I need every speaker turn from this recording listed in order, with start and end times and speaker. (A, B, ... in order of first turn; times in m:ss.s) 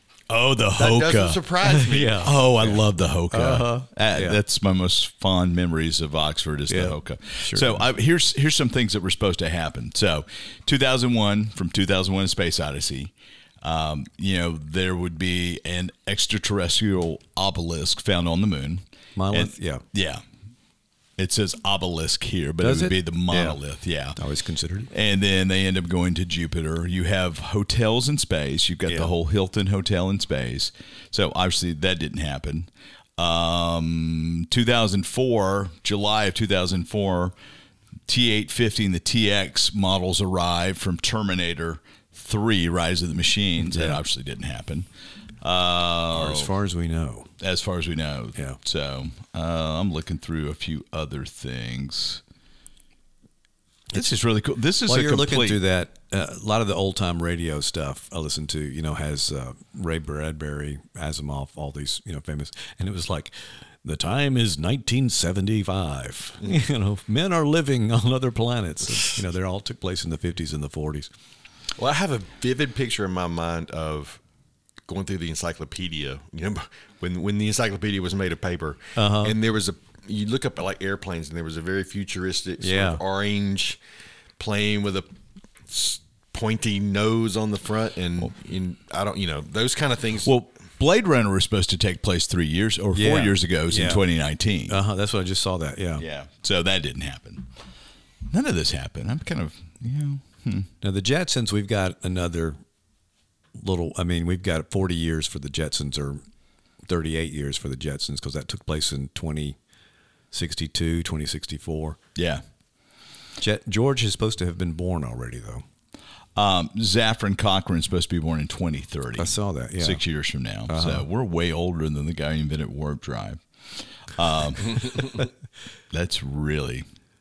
0:00.3-0:01.4 A
0:00.7-0:02.3 B
0:01.6-0:04.4 C
0:02.2-0:20.2 A
0:06.7-0:07.8 C
0:19.2-0:19.8 C
0:21.2-0:24.2 A
0:22.6-0:23.6 C
0:24.2-0:24.9 C
0:24.9-0:37.3 A
0:28.9-0:29.1 C
0:38.1-0:44.9 A
0:43.6-0:44.0 C
0:45.4-0:46.5 A
0:46.1-0:47.3 C
0:47.4-0:52.2 A
0:53.9-0:55.6 A
0:54.9-1:11.1 C
1:11.8-1:14.2 B
1:14.9-1:23.8 B
1:19.0-1:19.4 C
1:22.6-1:23.0 C
1:24.4-1:25.1 B
1:25.7-1:30.3 B
1:30.2-1:34.8 A
1:32.9-1:34.0 C
1:34.7-1:36.0 C
1:36.0-1:37.5 A
1:38.3-1:40.7 A
1:40.8-1:42.6 C
1:43.5-1:46.2 C
1:46.8-1:49.6 C
1:50.3-1:52.0 C
1:52.1-1:52.4 A
1:53.4-1:55.6 C
1:56.4-2:03.4 A
1:59.2-2:00.0 C
2:00.7-2:01.1 C
2:04.0-2:05.2 A
2:05.9-2:06.8 A